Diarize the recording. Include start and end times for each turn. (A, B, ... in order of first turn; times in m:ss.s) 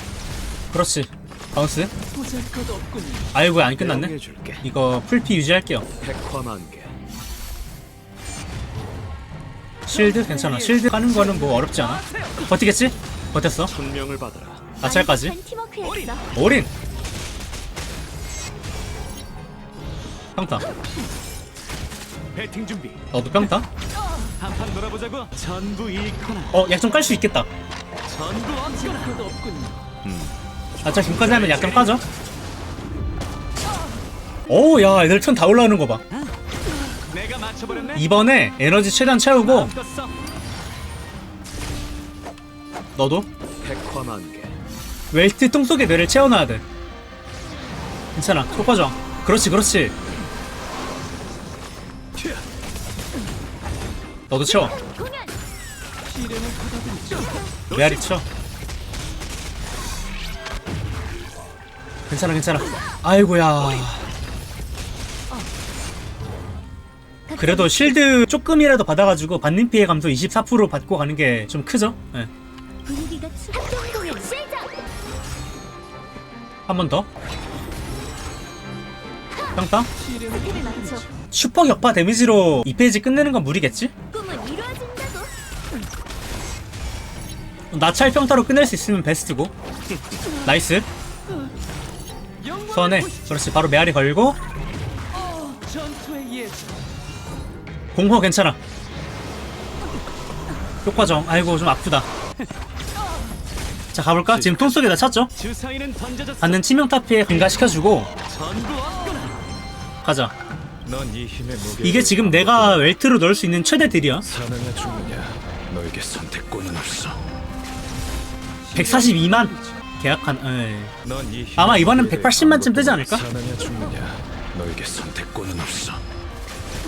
0:00.7-0:01.9 A
0:02.1-0:03.3 B
0:03.3-0:05.8 A
0:03.8-0:04.6 C
0:06.0-0:06.9 C
0:09.9-0:13.7 A
0:10.0-0:12.4 B
0:13.7-0:14.6 C
0:14.8-0:15.3 A
0:14.8-0:16.2 D
0:15.8-0:16.1 B
0:16.3-0:16.7 A
0:20.4-0:20.6 A
0:22.3-0:23.0 B
0:23.1-0:23.7 A
0:24.1-0:26.5 B
0:26.5-0:27.5 A
0:28.1-0:29.9 B
0:30.0-0:30.4 C
0:30.8-0:32.0 A
0:30.9-0:32.0 B
0:34.5-0:36.0 A
0:36.9-0:38.0 B
0:38.0-0:39.7 A
0:39.4-0:40.1 B
0:43.0-0:43.3 A
0:43.6-0:44.5 C
0:45.1-0:46.6 A
0:48.1-0:49.9 A
0:54.3-0:54.7 A
0:54.8-0:55.4 D
0:56.0-0:57.9 B
0:57.7-0:58.2 A
1:02.1-1:04.0 A
1:07.3-1:08.0 D
1:07.4-1:12.3 A
1:12.8-1:14.8 D
1:16.7-1:17.1 A
1:19.6-1:19.9 A
1:20.0-1:21.1 B
1:20.3-1:21.1 D
1:21.3-1:23.9 A
1:24.1-1:25.4 D
1:27.7-1:29.5 A
1:30.4-1:30.9 A
1:32.4-1:33.4 B
1:32.7-1:34.4 A
1:35.1-1:36.7 B
1:37.9-1:38.6 A
1:40.8-1:42.1 A
1:43.9-1:45.3 A
1:44.3-1:44.8 C
1:45.4-1:46.6 B
1:46.4-1:48.1 A
1:47.3-1:47.7 B
1:48.2-1:49.4 B
1:50.0-1:50.3 A
1:50.8-1:52.9 C
1:51.8-1:54.3 A
1:54.2-1:57.2 C
1:58.6-1:59.8 B
1:58.7-2:00.9 A
2:01.0-2:06.0 C
2:01.6-2:03.2 A